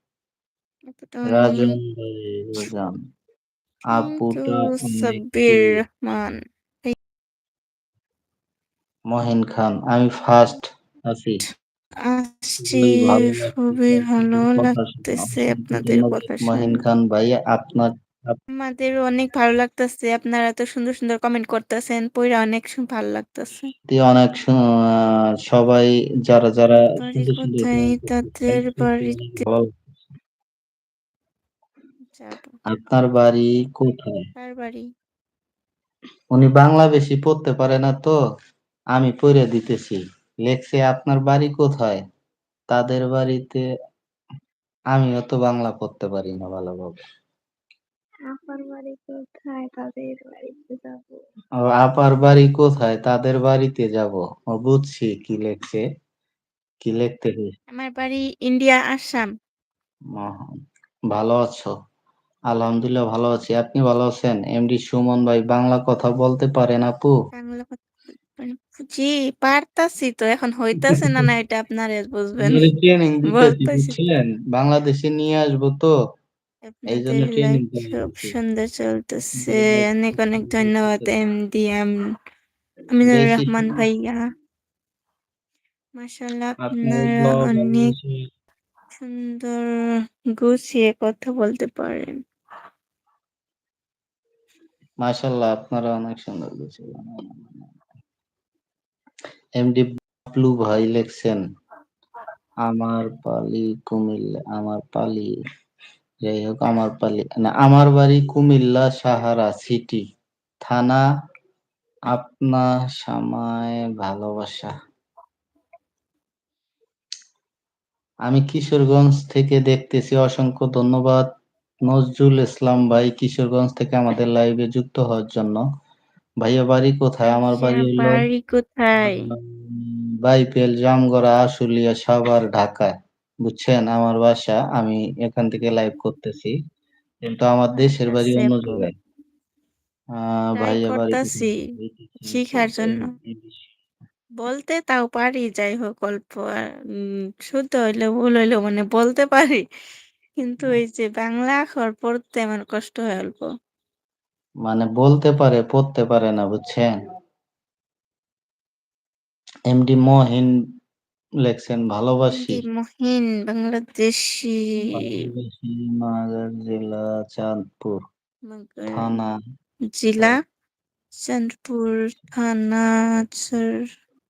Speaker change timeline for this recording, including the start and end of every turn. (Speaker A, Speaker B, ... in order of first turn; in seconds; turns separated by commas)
Speaker A: 0.9-1.8, Speaker B: 1.3-3.0, Speaker B: 3.9-5.8, Speaker A: 3.9-7.0, Speaker B: 9.1-11.4, Speaker A: 12.1-16.8, Speaker B: 12.6-18.4, Speaker A: 18.5-23.7, Speaker B: 23.9-29.8, Speaker A: 26.9-29.4, Speaker A: 32.1-32.6, Speaker B: 32.7-34.2, Speaker A: 34.4-34.9, Speaker B: 36.3-38.2, Speaker B: 38.9-42.0, Speaker B: 42.7-43.6, Speaker B: 44.9-47.0, Speaker C: 48.3-51.2, Speaker B: 51.6-55.9, Speaker B: 56.8-57.5, Speaker A: 57.7-59.3, Speaker B: 60.1-60.6, Speaker B: 61.1-61.7, Speaker B: 62.5-67.1, Speaker A: 67.3-67.8, Speaker A: 68.4-72.7, Speaker B: 70.9-71.2, Speaker B: 72.4-75.9, Speaker A: 73.3-74.0, Speaker A: 76.7-82.0, Speaker B: 76.9-78.4, Speaker B: 79.4-81.1, Speaker A: 82.9-84.2, Speaker B: 83.0-83.8, Speaker A: 86.0-87.9, Speaker B: 86.6-88.2, Speaker A: 89.0-89.6, Speaker A: 90.4-92.2, Speaker B: 95.0-97.7, Speaker B: 99.6-101.4, Speaker B: 102.7-105.3, Speaker B: 106.2-110.0, Speaker B: 110.7-111.0, Speaker B: 112.1-114.7, Speaker B: 118.3-121.3, Speaker B: 121.9-125.6, Speaker B: 126.4-128.3, Speaker A: 127.3-129.3, Speaker B: 129.0-136.5, Speaker B: 137.2-138.9, Speaker A: 137.8-138.9, Speaker B: 140.2-143.6, Speaker A: 140.6-141.6, Speaker A: 142.2-143.1, Speaker A: 144.4-146.6, Speaker A: 147.5-149.6, Speaker A: 150.4-153.5, Speaker B: 154.7-156.9, Speaker B: 159.7-160.5, Speaker B: 161.4-162.6, Speaker A: 162.3-165.2, Speaker B: 164.9-168.0, Speaker A: 168.5-169.2, Speaker B: 168.9-169.3, Speaker A: 169.9-170.3, Speaker A: 171.2-173.8